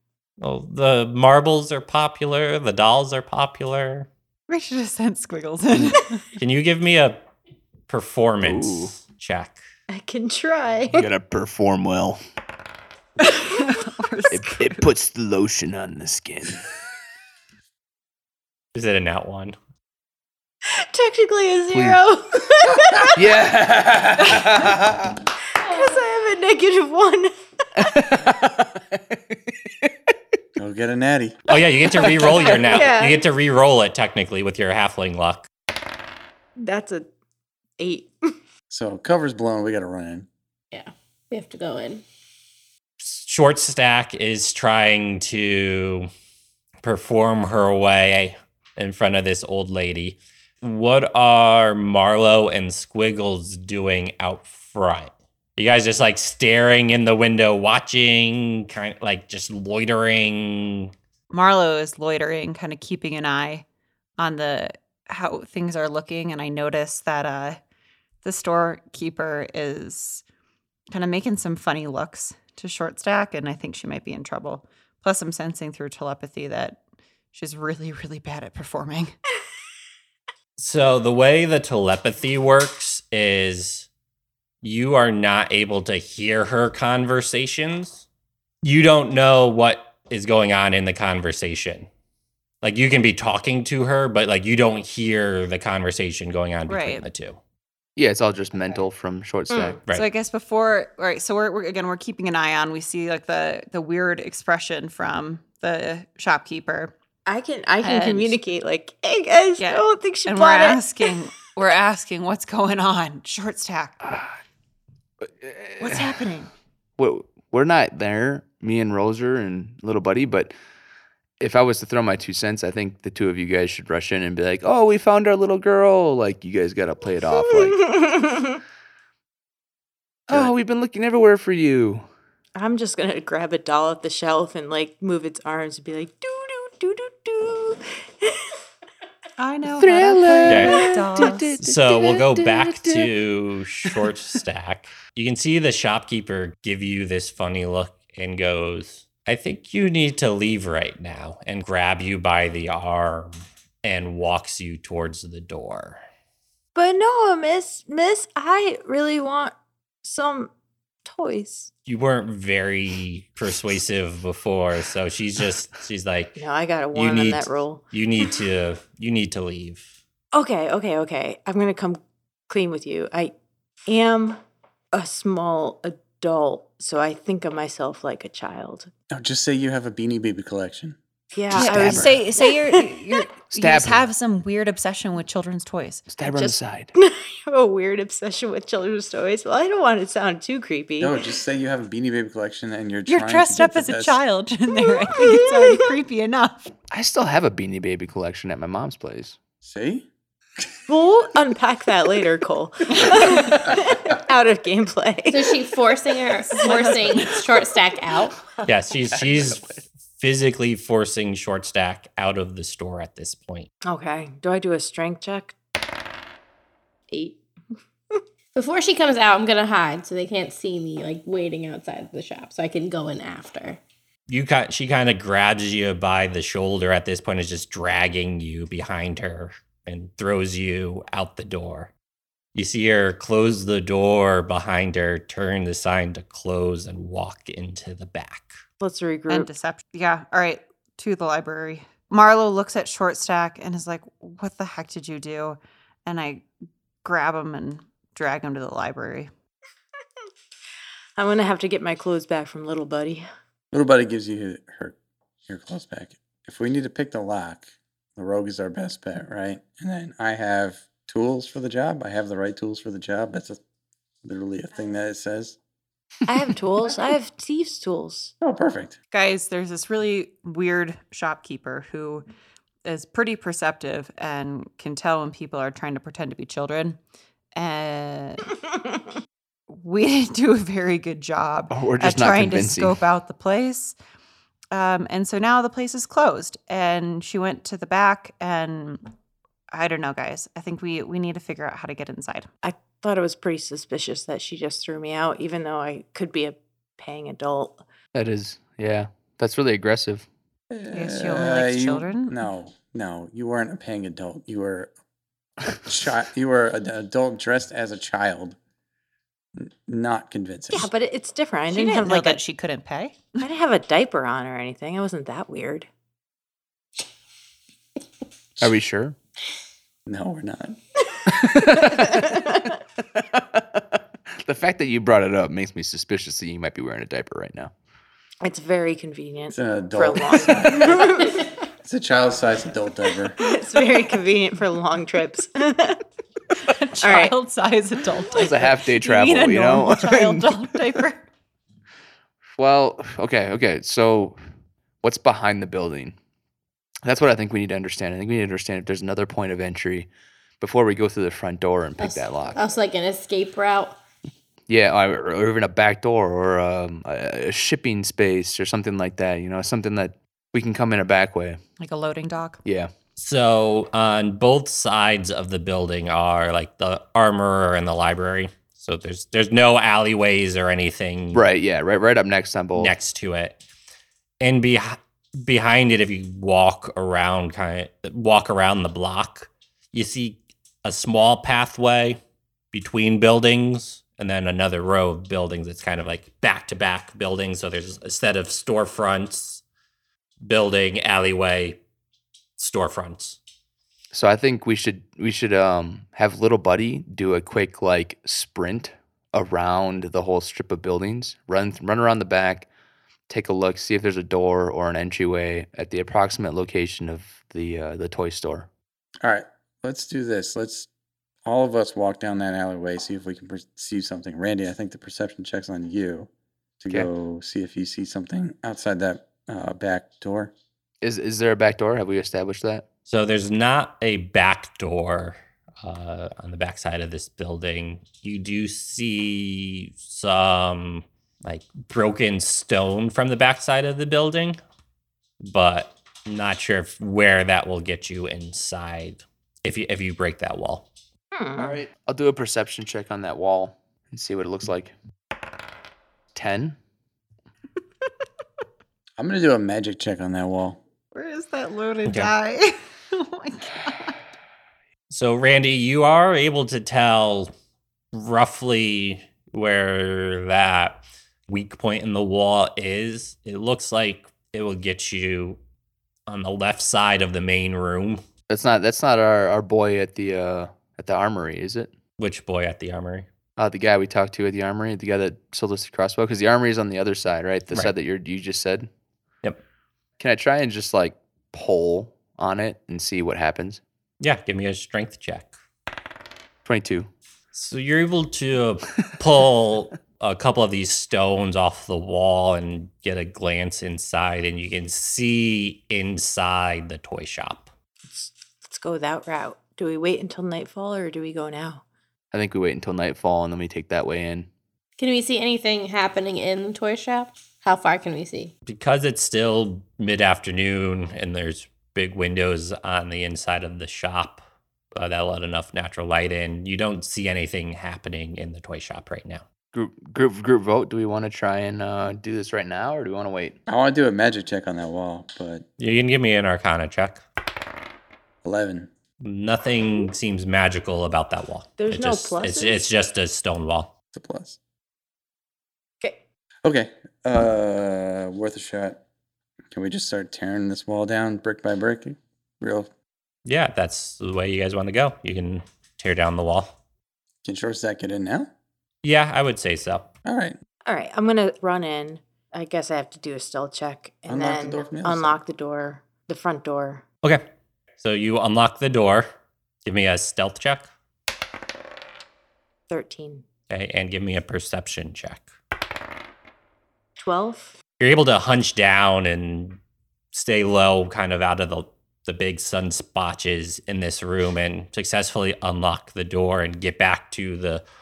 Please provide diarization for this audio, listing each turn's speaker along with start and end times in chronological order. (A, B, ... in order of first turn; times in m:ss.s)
0:00.4-0:04.1 A
0:04.5-0:06.3 B
0:06.4-0:07.2 A
0:07.9-0:09.6 A
0:08.4-0:08.9 C
0:09.9-0:11.1 D
0:10.9-0:12.2 C
0:13.2-0:14.9 B
0:14.3-0:16.6 C
0:18.8-0:19.6 A
0:20.7-0:23.2 D
0:21.7-0:22.0 C
0:22.9-0:25.2 C
0:25.6-0:27.9 D
0:27.8-0:30.1 C
0:30.6-0:31.4 E
0:31.5-0:35.5 A
0:32.0-0:32.6 C
0:32.5-0:33.2 D
0:36.6-0:37.1 D
0:37.8-0:38.3 D
0:38.7-0:40.3 E
0:40.7-0:42.0 F
0:43.0-0:46.1 A
0:46.8-1:00.9 A
1:01.3-1:03.6 B
1:04.2-1:07.6 B
1:08.2-1:10.2 B
1:10.9-1:16.8 B
1:17.3-1:19.1 B
1:20.6-1:23.9 A
1:24.6-1:28.0 A
1:28.6-1:31.9 A
1:32.6-1:37.4 A
1:36.7-1:37.1 B
1:38.0-1:39.8 C
1:39.5-1:39.8 D
1:39.9-1:46.9 B
1:47.3-1:51.1 D
1:47.8-1:48.4 B
1:49.6-1:54.0 B
1:55.2-1:56.2 C
1:55.8-1:56.5 B
1:57.0-2:00.5 C
2:01.4-2:08.0 C
2:08.0-2:08.6 D
2:10.3-2:12.0 C
2:12.6-2:18.4 D
2:19.4-2:21.6 B
2:19.8-2:21.7 C
2:20.4-2:20.9 F
2:20.5-2:20.9 A
2:21.6-2:36.0 A
2:21.9-2:23.1 F
2:36.8-2:39.5 D
2:40.0-2:40.5 D
2:41.0-2:41.7 D
2:41.9-2:46.4 A
2:46.4-2:47.8 D
2:46.9-2:49.9 A
2:50.3-2:53.3 D
2:53.9-2:54.4 D
2:54.9-2:58.9 D
2:59.1-3:01.0 E
3:01.3-3:03.3 D
3:01.5-3:02.2 C
3:01.5-3:06.1 B
3:03.5-3:04.1 C
3:06.1-3:06.9 C
3:06.3-3:11.2 D
3:11.0-3:14.2 E
3:13.1-3:16.7 B
3:14.8-3:15.9 D
3:16.9-3:19.4 C
3:19.6-3:20.1 E
3:20.9-3:25.7 D
3:23.0-3:23.6 B
3:25.3-3:28.4 F
3:26.5-3:27.5 B
3:28.6-3:33.7 A
3:33.8-3:35.6 D
3:37.1-3:37.4 D
3:38.6-3:43.8 F
3:44.3-3:51.9 A
3:52.6-3:58.6 A
3:58.8-3:59.5 D
3:59.3-4:06.5 B
4:07.0-4:09.3 B
4:11.2-4:13.2 D
4:13.7-4:15.0 E
4:15.5-4:23.6 E
4:24.2-4:25.6 E
4:26.3-4:28.3 D
4:28.4-4:29.0 E
4:29.1-4:32.2 B
4:32.8-4:37.0 B
4:37.6-4:38.6 B
4:39.7-4:44.0 B
4:41.7-4:43.0 C
4:44.7-4:49.0 B
4:49.7-4:52.5 B
4:52.6-4:57.8 D
4:58.1-5:00.3 C
5:00.7-5:04.9 E
5:00.9-5:02.4 B
5:05.7-5:08.6 E
5:09.6-5:10.9 E
5:10.7-5:12.4 D
5:11.7-5:13.4 B
5:13.4-5:15.9 D
5:18.6-5:19.2 C
5:20.1-5:20.8 E
5:21.3-5:22.5 C
5:22.2-5:22.6 D
5:23.2-5:23.8 C
5:24.4-5:27.7 C
5:28.4-5:31.5 D
5:29.5-5:31.2 E
5:31.8-5:33.4 E
5:33.4-5:36.0 D
5:36.7-5:41.2 B
5:37.0-5:37.4 D
5:38.3-5:40.8 C
5:42.6-5:44.4 C
5:45.0-5:46.2 C
5:47.0-5:50.1 C
5:50.6-5:52.6 C
5:52.0-5:54.0 F
5:54.7-6:01.6 C
6:01.8-6:02.6 B
6:02.6-6:02.9 C
6:03.2-6:11.4 A
6:11.3-6:12.9 C
6:12.8-6:13.6 A
6:14.4-6:22.2 A
6:22.7-6:29.6 A
6:30.4-6:31.8 A
6:32.6-6:33.4 A
6:34.1-6:42.7 C
6:43.3-6:48.7 C
6:49.2-6:50.9 E
6:51.4-7:00.5 E
7:01.0-7:02.8 C
7:03.1-7:14.6 A
7:15.4-7:20.9 A
7:21.3-7:21.8 D
7:21.6-7:24.9 C
7:26.4-7:26.8 C
7:29.2-7:30.8 E
7:31.1-7:34.2 B
7:32.1-7:32.3 A
7:35.1-7:37.5 A
7:38.1-7:45.6 A
7:46.3-7:48.2 A
7:48.5-7:51.9 C
7:52.2-7:53.3 A
7:53.6-7:58.9 C
8:00.2-8:03.8 C
8:04.2-8:05.5 A
8:06.6-8:07.1 C
8:07.5-8:17.7 A
8:18.1-8:21.8 D
8:22.3-8:24.5 C
8:25.0-8:28.5 F
8:28.7-8:34.4 A
8:34.9-8:39.4 A
8:39.7-8:43.6 C
8:43.7-8:45.7 E
8:45.8-8:47.2 A
8:48.4-8:48.9 E
8:49.2-8:53.9 A
8:51.8-8:52.8 D
8:54.1-8:54.6 E
8:56.6-8:59.0 E
8:59.7-9:02.9 E
9:03.5-9:06.8 A
9:07.4-9:08.5 E
9:09.0-9:10.1 A
9:10.2-9:10.6 E
9:10.9-9:17.0 D
9:14.3-9:15.3 E
9:18.0-9:19.3 A
9:19.8-9:20.9 A
9:22.9-9:23.4 D
9:23.7-9:25.5 A
9:27.2-9:27.8 D
9:28.0-9:29.8 A
9:30.3-9:37.8 A